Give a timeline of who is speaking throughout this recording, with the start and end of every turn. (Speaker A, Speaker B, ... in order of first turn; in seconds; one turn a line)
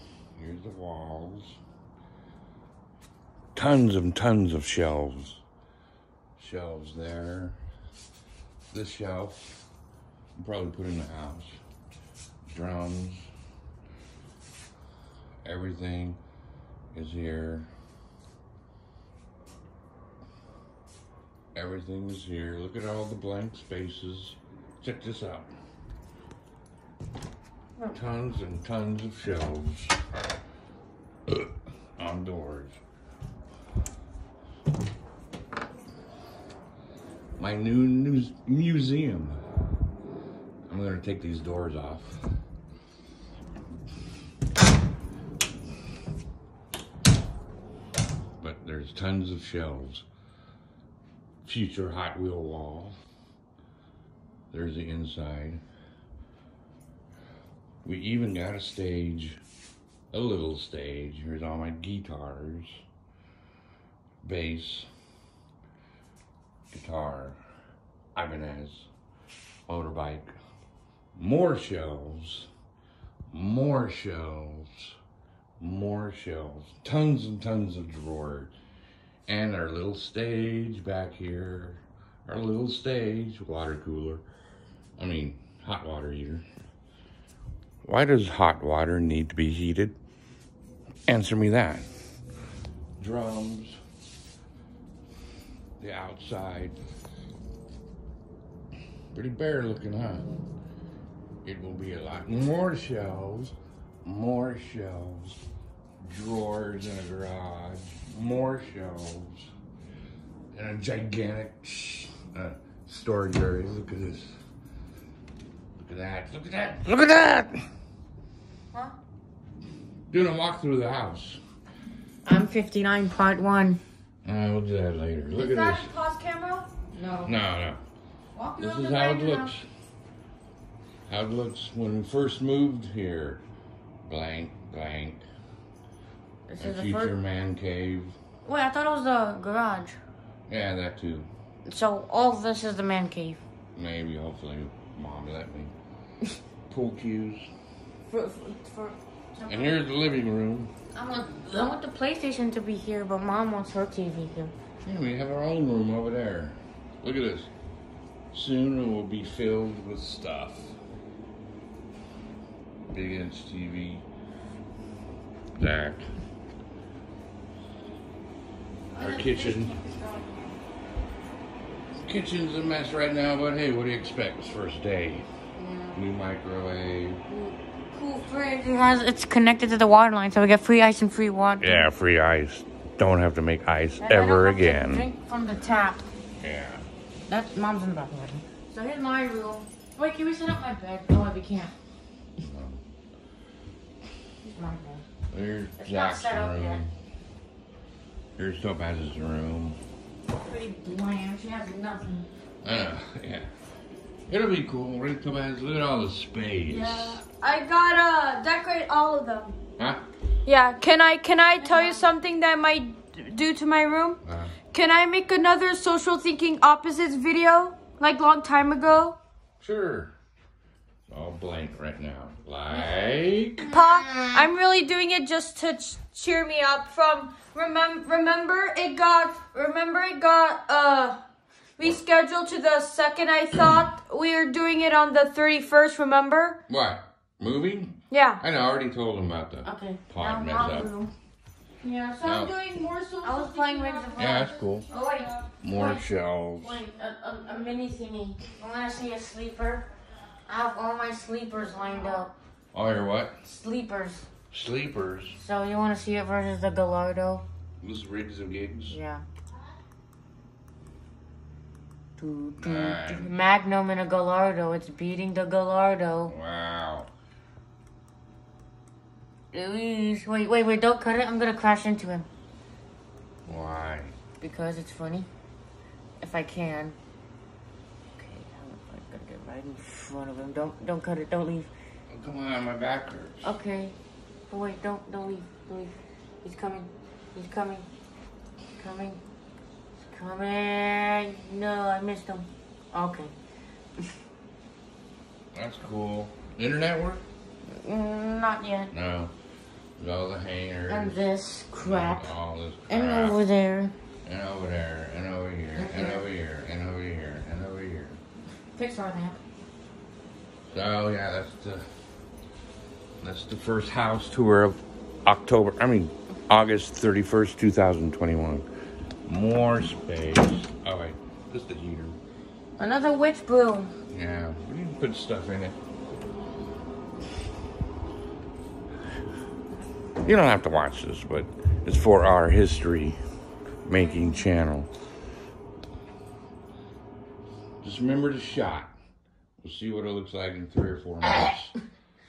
Speaker A: 0.3-1.6
Speaker A: 3.5-5.4
Speaker A: 6.4-7.6
Speaker A: 8.7-9.7
Speaker A: 10.3-11.6
Speaker A: 12.4-13.3
Speaker A: 15.4-16.2
Speaker A: 16.9-17.7
Speaker A: 21.5-25.5
Speaker A: 27.9-30.0
Speaker A: 31.3-32.8
Speaker A: 37.4-39.4
Speaker A: 40.7-42.2
Speaker A: 48.4-50.0
Speaker A: 51.4-53.0
Speaker A: 54.5-55.6
Speaker A: 57.8-59.4
Speaker A: 60.1-62.8
Speaker A: 64.2-64.9
Speaker A: 66.7-67.4
Speaker A: 68.1-68.9
Speaker A: 69.7-70.3
Speaker A: 71.1-72.5
Speaker A: 73.3-75.0
Speaker A: 75.6-78.5
Speaker A: 79.3-84.2
Speaker A: 85.0-86.4
Speaker A: 87.8-90.0
Speaker A: 91.1-91.9
Speaker A: 93.0-93.8
Speaker A: 95.8-96.8
Speaker A: 99.1-100.3
Speaker A: 101.4-105.4
Speaker A: 106.0-109.5
Speaker A: 110.5-114.4
Speaker A: 115.8-117.6
Speaker A: 120.1-121.4
Speaker B: 122.2-123.8
Speaker A: 124.2-125.9
Speaker C: 125.3-126.7
Speaker B: 126.9-127.3
Speaker A: 127.2-127.8
Speaker B: 128.3-129.5
Speaker A: 128.6-129.7
Speaker A: 131.1-133.4
Speaker A: 134.0-135.3
Speaker B: 136.5-137.1
Speaker A: 136.6-138.2
Speaker B: 138.4-140.0
Speaker A: 140.5-141.3
Speaker B: 141.7-143.4
Speaker A: 143.7-145.7
Speaker A: 146.7-147.5
Speaker B: 148.1-149.8
Speaker A: 149.5-150.7
Speaker B: 150.9-154.5
Speaker A: 154.8-157.5
Speaker A: 158.3-160.8
Speaker A: 162.9-164.1
Speaker A: 165.6-166.1
Speaker B: 168.9-169.9
Speaker A: 169.0-169.7
Speaker C: 169.0-170.5
Speaker A: 172.0-175.3
Speaker B: 175.6-176.0
Speaker A: 175.9-177.2
Speaker B: 177.3-181.9
Speaker A: 181.6-185.1
Speaker B: 184.0-186.0
Speaker A: 186.4-186.8
Speaker B: 187.3-191.7
Speaker A: 192.4-192.8
Speaker B: 194.5-195.0
Speaker A: 195.3-196.9
Speaker B: 195.8-196.8
Speaker A: 198.4-199.8
Speaker B: 200.4-202.3
Speaker A: 202.6-203.5
Speaker A: 204.3-207.2
Speaker C: 206.7-209.6
Speaker A: 209.8-210.0
Speaker C: 210.4-214.2
Speaker B: 211.6-212.1
Speaker A: 214.2-214.6
Speaker C: 214.7-219.2
Speaker A: 219.6-220.1
Speaker A: 221.1-223.7
Speaker C: 223.7-231.2
Speaker B: 223.7-224.4
Speaker C: 231.8-236.6
Speaker A: 236.7-240.9
Speaker C: 238.1-238.4
Speaker B: 239.6-241.1
Speaker C: 241.8-245.4
Speaker A: 242.2-242.5
Speaker B: 243.2-246.0
Speaker A: 244.2-244.9
Speaker A: 245.6-246.8
Speaker B: 246.6-249.9
Speaker B: 250.5-252.3
Speaker A: 252.7-253.3
Speaker B: 253.4-254.3
Speaker A: 254.5-255.4
Speaker B: 255.3-257.4
Speaker A: 257.8-259.0
Speaker B: 258.9-259.2
Speaker B: 262.2-266.3
Speaker A: 262.6-263.3
Speaker A: 266.3-267.1
Speaker B: 269.5-272.3
Speaker A: 273.4-274.1
Speaker B: 274.4-275.3
Speaker B: 276.2-277.0
Speaker B: 278.1-281.7
Speaker A: 282.1-283.5
Speaker B: 283.4-284.0
Speaker B: 284.5-287.9
Speaker B: 288.8-289.2
Speaker B: 290.0-293.3
Speaker A: 295.5-297.2
Speaker B: 297.7-298.9
Speaker A: 298.9-299.3
Speaker A: 300.0-301.2
Speaker B: 300.9-302.3
Speaker A: 301.8-303.4
Speaker B: 302.9-303.9
Speaker A: 304.2-308.2
Speaker B: 305.7-306.3
Speaker B: 308.7-309.4
Speaker A: 310.7-311.9
Speaker A: 313.2-318.6
Speaker A: 319.2-322.2
Speaker B: 322.8-323.9
Speaker A: 324.1-325.8
Speaker A: 330.2-333.2
Speaker A: 333.8-334.9
Speaker A: 337.8-338.9
Speaker A: 339.6-341.7